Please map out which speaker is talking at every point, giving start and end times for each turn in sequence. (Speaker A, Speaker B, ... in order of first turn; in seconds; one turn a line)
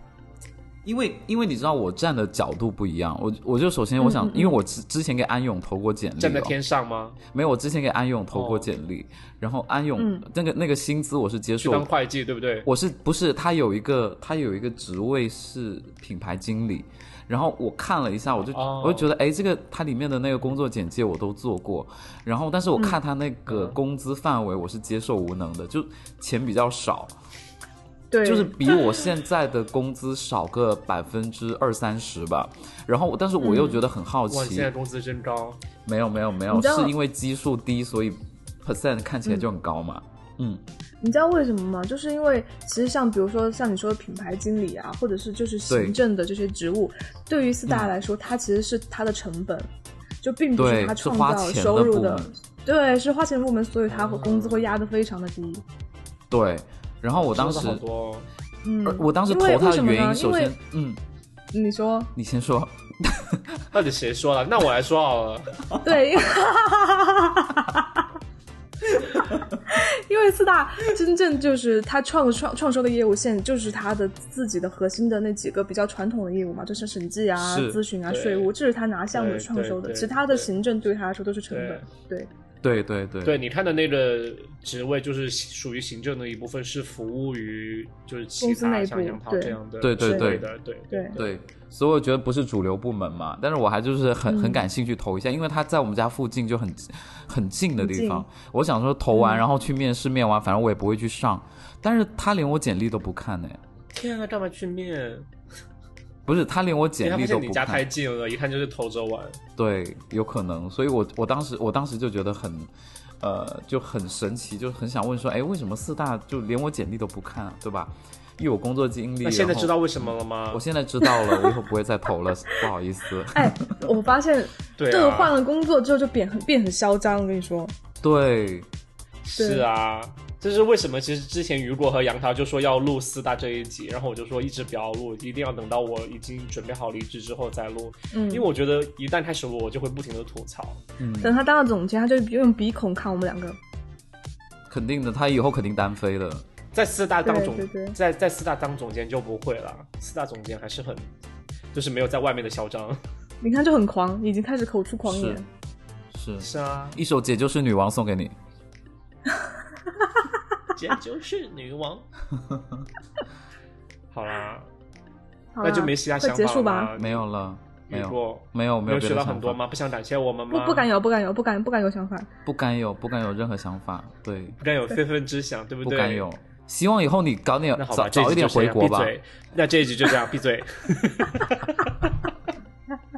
Speaker A: 0.8-6.5
Speaker B: 4.0-4.6
Speaker C: 6.2-7.2
Speaker A: 7.3-11.9
Speaker C: 8.3-8.7
Speaker B: 10.0-10.2
Speaker C: 11.6-12.7
Speaker A: 12.7-27.1
Speaker C: 18.5-19.1
Speaker C: 23.5-23.8
Speaker B: 28.1-28.7
Speaker A: 28.2-34.7
Speaker B: 33.4-33.8
Speaker C: 34.3-35.6
Speaker A: 35.9-40.6
Speaker B: 36.5-36.9
Speaker B: 41.0-49.7
Speaker A: 45.7-46.0
Speaker A: 47.7-47.9
Speaker B: 50.2-55.6
Speaker A: 50.6-52.3
Speaker C: 53.9-54.7
Speaker A: 56.3-57.8
Speaker C: 57.2-58.3
Speaker B: 58.6-60.5
Speaker A: 58.9-61.0
Speaker B: 61.5-62.1
Speaker A: 62.1-63.6
Speaker C: 63.7-65.6
Speaker B: 65.8-68.0
Speaker B: 69.7-82.3
Speaker A: 77.4-77.8
Speaker C: 78.1-78.5
Speaker C: 79.1-80.5
Speaker C: 81.5-81.9
Speaker A: 82.6-83.4
Speaker C: 83.2-91.3
Speaker B: 88.4-90.4
Speaker A: 89.8-90.5
Speaker B: 90.9-91.2
Speaker A: 91.2-103.6
Speaker B: 94.3-94.6
Speaker B: 97.8-98.2
Speaker B: 99.1-99.4
Speaker C: 103.9-105.3
Speaker A: 106.3-107.9
Speaker C: 107.0-109.4
Speaker A: 109.6-123.9
Speaker C: 119.2-120.7
Speaker B: 121.0-121.6
Speaker B: 123.3-127.7
Speaker C: 124.8-125.4
Speaker A: 128.0-128.7
Speaker C: 129.3-140.8
Speaker B: 129.4-129.7
Speaker B: 138.1-138.5
Speaker A: 141.0-141.4
Speaker B: 141.2-143.6
Speaker A: 144.7-146.4
Speaker C: 146.7-151.1
Speaker B: 147.3-148.0
Speaker C: 151.7-153.0
Speaker B: 153.4-155.5
Speaker A: 155.1-155.4
Speaker A: 156.1-158.3
Speaker C: 156.4-157.0
Speaker C: 160.7-162.1
Speaker A: 162.3-162.9
Speaker C: 164.1-164.7
Speaker B: 165.6-166.9
Speaker C: 165.6-167.2
Speaker A: 167.0-169.6
Speaker C: 167.9-170.9
Speaker B: 170.5-172.3
Speaker A: 172.5-174.6
Speaker C: 174.6-176.2
Speaker A: 175.8-179.2
Speaker C: 177.8-181.9